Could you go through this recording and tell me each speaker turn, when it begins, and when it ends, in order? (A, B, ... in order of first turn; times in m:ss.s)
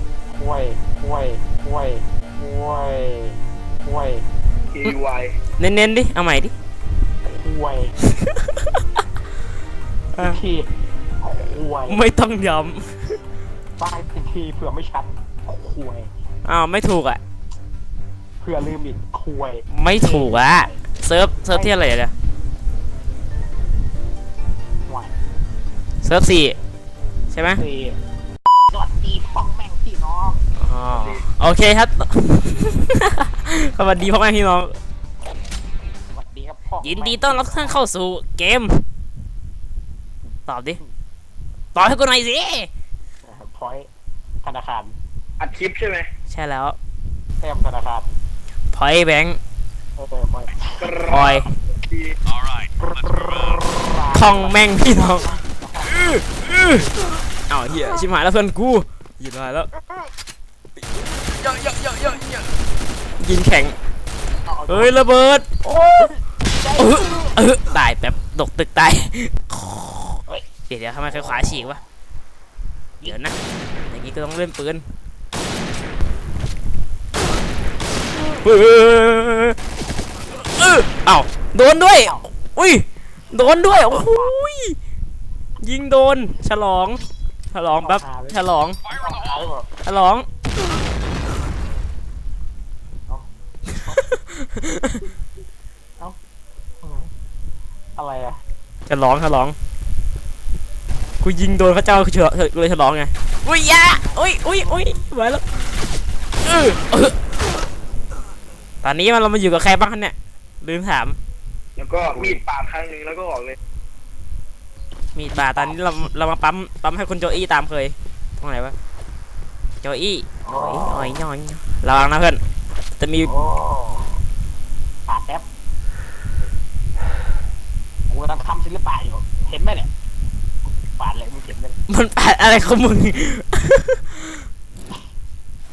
0:00.3-0:04.3 A
0:04.7-0:05.4 B
0:05.6-0:06.5 C
0:07.2-0:08.0 A
0:08.2-0:08.8 C
0:10.1-0:10.4 C
0:10.2-0:12.0 A
0:11.9-0:13.2 C
0:13.8-0:16.1 A
0:16.4-0:17.2 C
0:18.4-0:20.7 A
0:19.7-0:22.1 C
0:21.5-0:21.8 A
0:24.8-0:25.1 A
0:26.0-0:26.6 C
0:27.3-0:27.6 C
0:27.6-0:28.0 A
0:28.7-0:30.4 A
0:30.6-0:34.8 C
0:30.9-0:31.3 B
0:36.1-0:37.8 A
0:36.8-0:38.8 C
0:40.5-0:40.8 C
0:41.7-0:42.7 C
0:43.2-0:43.9 A
0:44.4-0:45.0 A
0:45.4-0:46.1 B
0:46.3-0:46.8 C
0:47.4-0:48.1 A
0:48.7-0:49.4 C
0:50.0-0:50.9 A
0:50.8-0:52.2 B
0:51.1-0:51.4 C
0:52.8-0:56.0 A
0:54.1-0:56.9 C
0:57.5-0:59.7 C
1:01.2-1:02.5 C
1:03.2-1:03.8 C
1:04.4-1:05.0 A
1:04.7-1:06.1 C
1:06.0-1:07.4 A
1:06.8-1:11.8 C
1:11.1-1:11.6 A
1:13.0-1:13.4 C
1:13.9-1:14.8 C
1:18.2-1:19.6 C
1:20.3-1:24.8 C
1:24.0-1:24.3 A
1:25.6-1:28.8 C
1:27.7-1:29.7 A
1:29.8-1:30.3 C
1:34.3-1:35.0 C
1:36.8-1:37.1 A
1:38.0-1:38.4 A
1:38.9-1:39.6 C
1:41.2-1:47.2 C
1:48.8-1:51.2 C
1:51.8-1:53.6 B
1:52.1-1:52.4 A
1:55.1-1:58.7 C
1:59.8-2:02.4 C
2:00.4-2:01.2 A
2:03.0-2:03.3 C
2:03.2-2:04.2 A
2:05.1-2:05.4 A
2:08.1-2:09.9 A
2:11.0-2:11.8 A
2:11.9-2:14.4 C